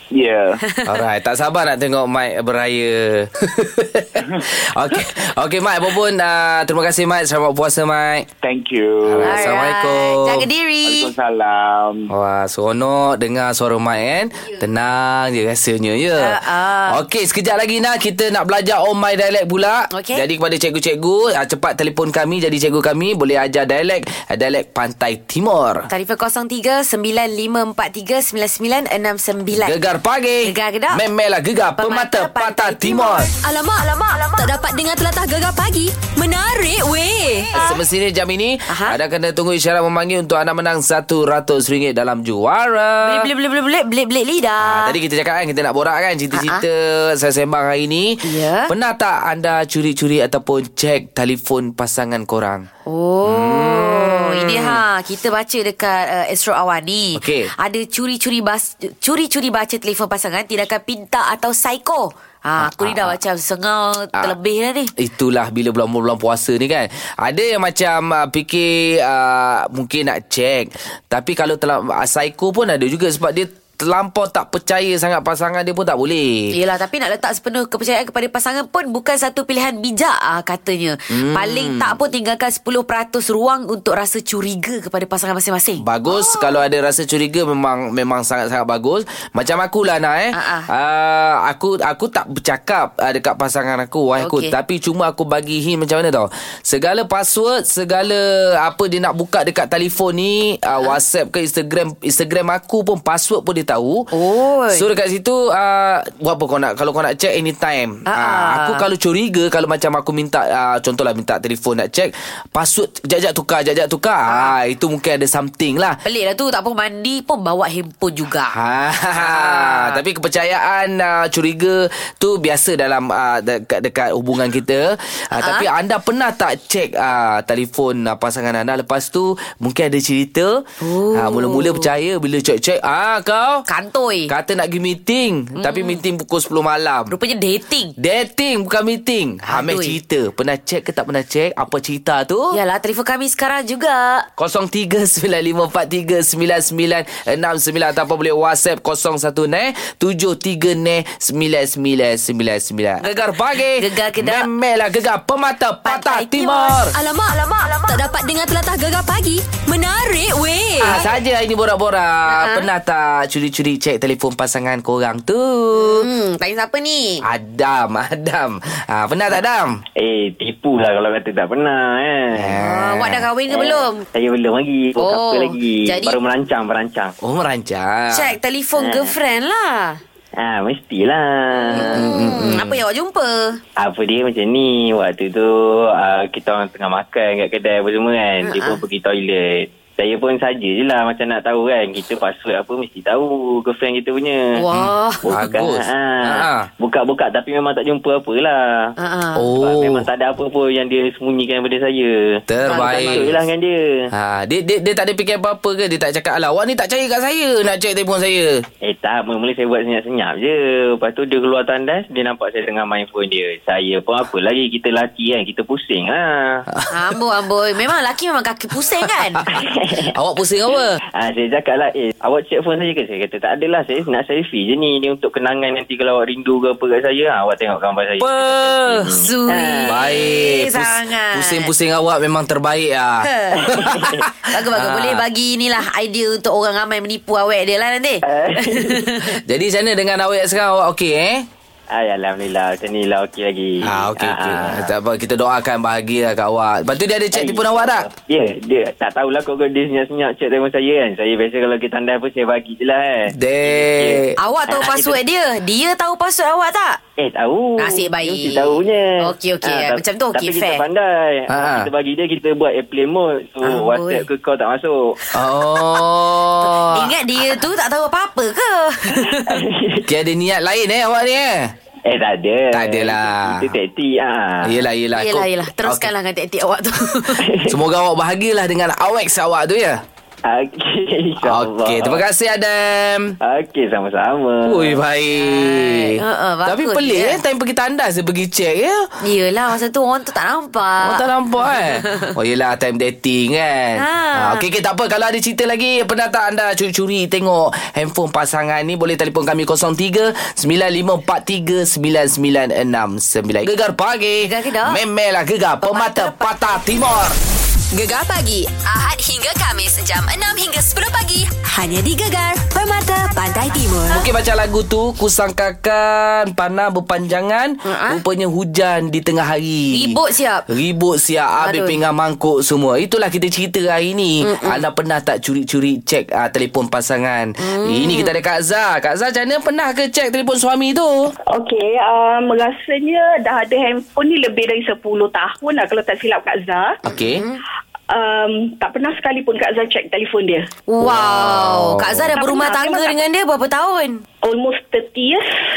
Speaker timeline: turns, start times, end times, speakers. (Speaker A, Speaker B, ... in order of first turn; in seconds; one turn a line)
Speaker A: 0.1-0.6
Speaker B: 0.6-1.0
Speaker C: 0.9-8.3
Speaker A: 8.4-9.5
Speaker C: 9.1-10.5
Speaker B: 9.2-11.1
Speaker A: 10.8-12.1
Speaker C: 12.1-25.9
Speaker B: 16.2-17.0
Speaker B: 19.9-20.2
Speaker B: 25.9-29.8
Speaker C: 29.5-33.3
Speaker B: 30.4-31.0
Speaker B: 31.8-33.3
Speaker D: 33.4-37.6
Speaker C: 37.5-43.3
Speaker B: 38.7-39.0
Speaker B: 43.0-45.0
Speaker C: 44.6-52.7
Speaker B: 46.3-46.6
Speaker B: 48.2-48.7
Speaker B: 52.9-64.9
Speaker C: 53.2-54.8
Speaker C: 57.2-57.5
Speaker C: 62.6-63.2
Speaker C: 65.0-76.5
Speaker B: 76.5-86.6
Speaker C: 81.1-82.0
Speaker C: 85.8-104.1
Speaker B: 90.3-90.7
Speaker B: 94.2-94.5
Speaker B: 104.1-104.9
Speaker C: 104.7-116.0
Speaker B: 108.1-108.8
Speaker B: 114.3-114.5
Speaker B: 116.0-118.6
Speaker C: 118.5-133.7
Speaker B: 119.1-120.0
Speaker B: 125.3-125.7
Speaker B: 130.8-131.9
Speaker B: 133.7-134.3
Speaker C: 134.3-137.1
Speaker B: 135.6-136.0
Speaker B: 137.1-137.9
Speaker C: 138.0-142.6
Speaker B: 139.5-140.0
Speaker B: 142.5-144.3
Speaker C: 144.4-156.9
Speaker B: 153.7-154.5
Speaker B: 155.9-156.8
Speaker D: 156.9-161.0
Speaker C: 160.8-166.1
Speaker B: 162.3-162.7
Speaker B: 165.7-167.2
Speaker C: 167.2-169.8
Speaker E: 170.0-172.6
Speaker C: 172.3-173.3
Speaker B: 172.6-174.1
Speaker E: 173.5-177.2
Speaker B: 175.0-176.2
Speaker C: 177.2-178.3
Speaker B: 178.1-180.0
Speaker E: 178.8-179.1
Speaker E: 180.4-182.1
Speaker B: 181.7-183.6
Speaker C: 181.7-182.8
Speaker E: 183.8-194.5
Speaker B: 188.4-188.8
Speaker B: 194.6-195.2
Speaker C: 194.7-196.7
Speaker E: 195.2-198.9
Speaker B: 199.0-199.5
Speaker C: 199.4-200.1
Speaker E: 199.6-204.0
Speaker C: 202.5-203.4
Speaker B: 202.7-203.3
Speaker C: 204.1-208.7
Speaker E: 208.8-216.7
Speaker C: 216.7-217.1
Speaker B: 216.9-219.5
Speaker C: 219.0-221.0
Speaker E: 219.6-220.2
Speaker E: 221.2-229.9
Speaker C: 228.2-229.1
Speaker B: 229.1-231.7
Speaker C: 229.9-235.2
Speaker B: 233.2-233.8
Speaker E: 233.6-234.2
Speaker B: 234.5-239.4
Speaker E: 238.3-239.1
Speaker C: 239.4-241.5
Speaker E: 241.9-244.9
Speaker C: 243.8-248.1
Speaker E: 247.3-255.2
Speaker C: 253.3-254.4
Speaker B: 254.4-257.0
Speaker E: 257.2-265.2
Speaker B: 257.8-260.8
Speaker C: 261.5-261.9
Speaker B: 263.6-264.3
Speaker C: 265.3-267.1
Speaker B: 266.6-269.6
Speaker E: 269.4-270.1
Speaker C: 270.1-271.7
Speaker E: 272.1-274.8
Speaker C: 272.7-273.7
Speaker C: 274.6-276.1
Speaker B: 275.2-277.4
Speaker E: 277.4-277.8
Speaker C: 277.6-280.0
Speaker E: 280.4-282.2
Speaker C: 281.4-283.4
Speaker E: 283.4-285.0
Speaker C: 284.6-289.1
Speaker B: 285.4-287.4
Speaker B: 289.2-292.3
Speaker C: 291.0-307.4
Speaker B: 293.9-294.6
Speaker B: 304.4-305.0
Speaker B: 305.8-306.9
Speaker D: 307.9-311.5
Speaker B: 311.7-314.3
Speaker C: 314.1-320.2
Speaker B: 317.8-318.2
Speaker B: 319.9-320.7
Speaker C: 320.7-331.3
Speaker B: 321.6-322.0
Speaker B: 324.4-324.8
Speaker B: 327.6-328.3
Speaker F: 331.5-337.0
Speaker C: 337.0-337.4
Speaker B: 337.1-337.6
Speaker F: 338.1-340.7
Speaker B: 340.9-344.2
Speaker C: 341.0-342.3
Speaker F: 342.3-343.2
Speaker F: 344.4-345.5